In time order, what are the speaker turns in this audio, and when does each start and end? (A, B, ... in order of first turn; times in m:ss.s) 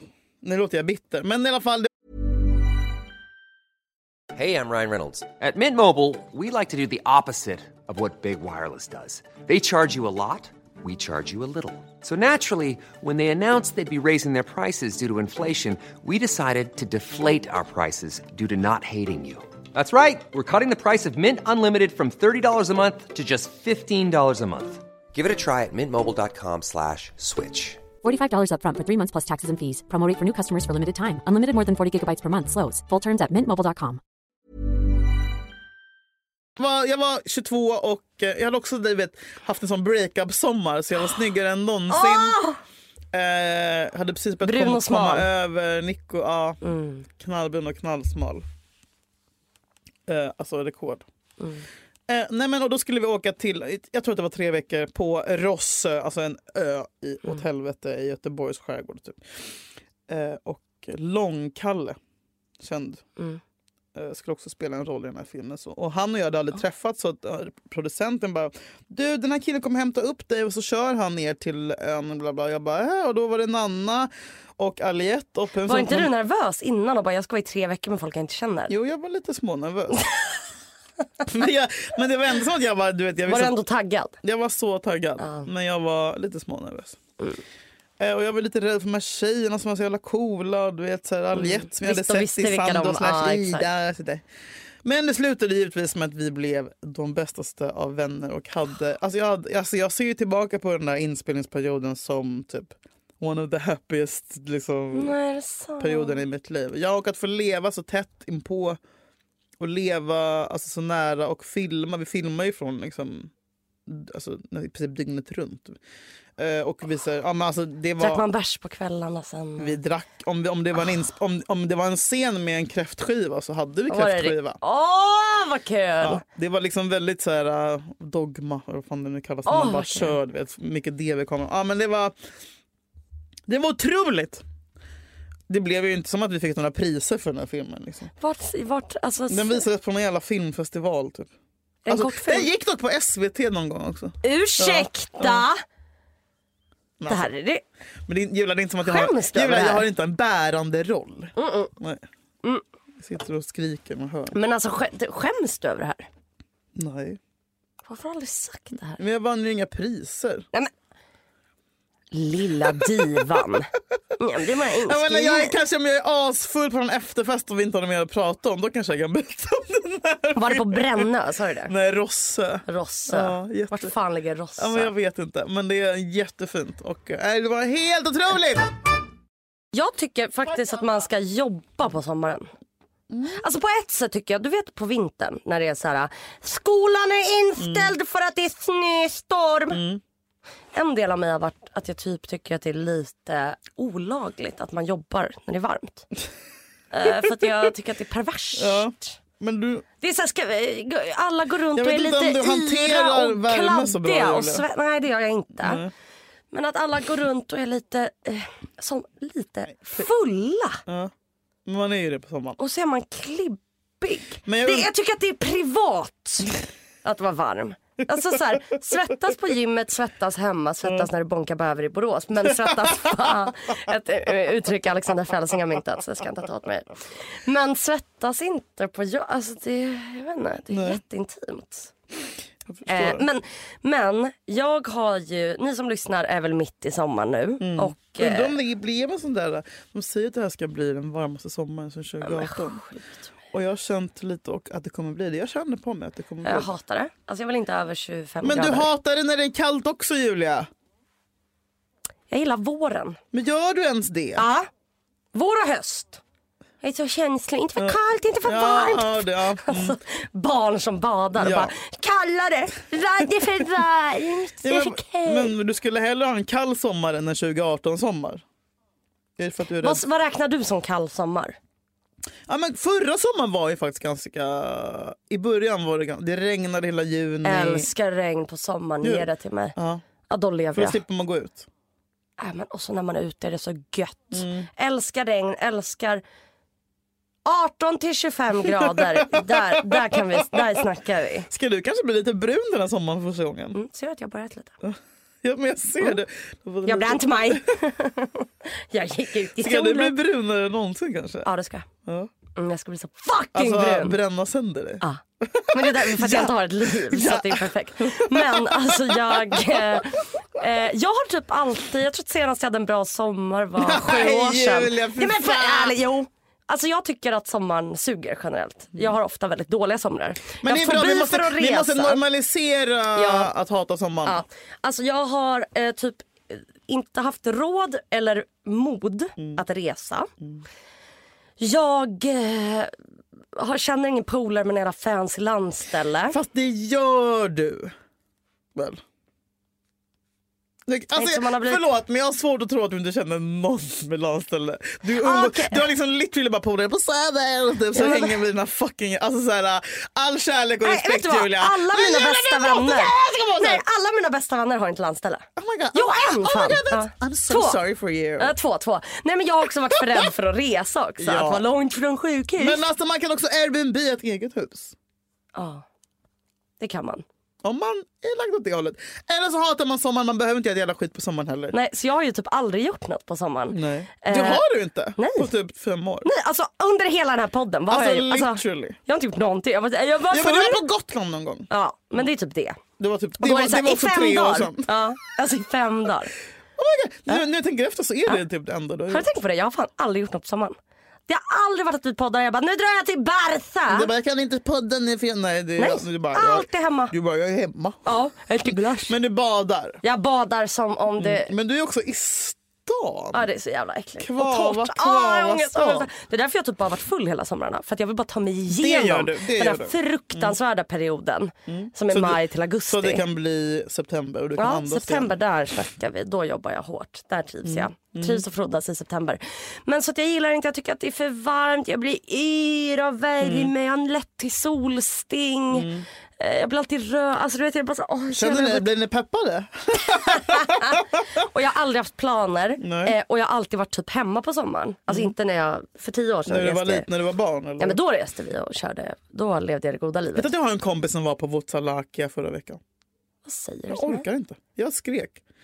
0:00.4-0:01.9 A
0:04.3-0:27.9 B
0:27.9-0:34.0 C
0:36.6-0:42.4 A
0:41.9-0:42.6 D
0:43.1-0:46.6 A
0:44.4-0:45.3 D
0:46.6-0:47.1 D
0:47.2-0:48.4 A
0:50.1-0:51.0 A
0:51.4-0:51.6 D
0:52.1-0:59.2 A
1:00.1-1:02.0 A
1:02.6-1:03.0 A
1:03.9-1:16.1 A
1:15.6-1:18.7 D
1:18.7-1:20.0 A
1:21.2-1:23.6 A
1:23.3-1:24.2 D
1:24.2-1:27.0 A
1:25.2-1:25.5 D
1:28.0-1:34.2 A
1:31.3-1:33.7 D
1:34.8-1:45.2 A
1:44.9-1:46.2 D
1:45.8-1:48.8 A
1:49.6-1:53.3 A
1:53.8-1:55.8 A
1:56.4-1:58.2 A
1:58.0-1:59.8 D
1:59.6-2:04.6 A
2:03.9-2:06.2 D
2:06.0-2:12.1 A
2:09.4-2:10.1 D
2:13.5-2:14.4 A
2:15.5-2:18.1 A
2:18.2-2:19.6 D
2:19.3-2:21.3 A
2:21.8-2:22.5 D
2:21.9-2:25.4 A
2:24.2-2:25.6 D
2:27.0-2:27.3 A
2:27.1-2:27.6 D
2:28.1-2:32.0 A
2:28.8-2:29.8 D
2:31.4-2:31.7 D
2:33.0-2:34.3 A
2:34.3-2:36.1 D
2:36.7-2:37.2 A
2:37.8-2:39.0 D
2:39.0-2:40.4 A
2:42.1-2:45.5 D
2:44.8-2:51.1 A
2:50.4-2:51.7 D
2:51.7-2:53.9 A
2:52.6-2:54.9 D
2:54.6-2:58.7 A
2:59.7-3:02.5 D
3:03.1-3:03.4 A
3:03.3-3:09.8 D
3:07.6-3:07.9 A
3:09.7-3:10.0 A
3:10.7-3:16.1 D
3:16.9-3:19.2 D
3:18.6-3:19.8 A
3:20.0-3:25.8 D
3:21.7-3:24.6 A
3:25.6-3:25.9 A
3:26.5-3:30.8 D
3:30.9-3:31.1 A
3:31.6-3:32.6 A
3:32.6-3:51.9 D
3:34.4-3:34.9 A
3:42.4-3:43.3 A
3:50.7-3:51.0 A
3:52.7-3:53.2 A
3:52.9-3:58.6 D
3:57.6-4:02.8 A
4:02.2-4:03.0 D
4:03.5-4:06.7 A
4:06.4-4:08.9 D
4:08.4-4:10.7 A
4:12.3-4:13.2 D
4:13.3-4:14.4 A
4:14.4-4:14.7 D
4:15.3-4:16.2 D
4:16.8-4:25.5 D
4:17.8-4:20.0 A
4:21.3-4:21.7 A
4:24.6-4:28.4 A
4:29.4-4:30.0 A
4:29.8-4:31.6 D
4:32.5-4:37.9 A
4:37.4-4:39.8 D
4:39.0-4:40.0 A
4:40.3-4:41.0 D
4:40.7-4:41.7 A
4:42.4-4:46.2 D
4:44.3-4:44.7 A
4:47.4-4:51.5 D
4:48.7-4:50.8 A
4:51.5-4:53.8 A
4:53.7-4:54.7 D
4:54.8-4:57.6 A
4:56.8-5:00.2 D
4:59.6-5:01.5 A
5:01.4-5:01.8 D
5:02.0-5:02.3 A
5:02.5-5:04.2 D
5:03.5-5:10.0 A
5:05.7-5:22.2 D
5:13.8-5:16.0 A
5:20.6-5:24.4 A
5:23.1-5:23.5 D
5:24.2-5:30.3 D
5:31.6-5:33.0 D
5:33.6-5:36.4 D
5:36.3-5:37.9 A
5:38.7-5:39.0 A
5:40.9-5:53.8 A
5:41.1-5:41.8 D
5:45.2-5:45.8 D
5:47.9-5:48.4 D
5:50.8-5:57.8 D
5:55.6-5:58.6 A
5:58.4-6:02.8 D
5:59.9-6:00.3 A
6:01.2-6:01.6 A
6:02.6-6:04.9 A
6:05.5-6:05.8 D
6:06.8-6:07.2 D
6:07.6-6:11.7 A
6:11.7-6:14.6 D
6:13.7-6:16.3 A
6:15.2-6:15.5 D
6:16.2-6:20.8 D
6:17.9-6:19.0 A
6:20.3-6:21.7 A
6:21.7-6:22.8 D
6:23.0-6:24.9 A
6:23.4-6:26.3 D
6:26.8-6:29.3 A
6:29.1-6:30.8 D
6:31.3-6:34.1 D
6:33.9-6:38.0 A
6:35.8-6:37.1 D
6:38.0-6:39.2 D
6:39.1-6:40.0 A
6:40.0-6:41.5 D
6:41.2-6:43.4 A
6:43.3-6:53.2 D
6:44.2-6:46.1 A
6:48.7-6:50.6 A
6:51.7-6:55.3 A
6:54.6-7:08.9 D
6:57.6-6:58.4 A
7:03.4-7:03.7 A
7:05.7-7:06.0 A
7:08.3-7:11.2 A
7:10.0-7:17.1 D
7:12.8-7:13.1 A
7:16.4-7:18.0 A
7:17.8-7:20.5 D
7:20.3-7:22.8 A
7:23.4-7:24.3 D
7:23.9-7:25.4 A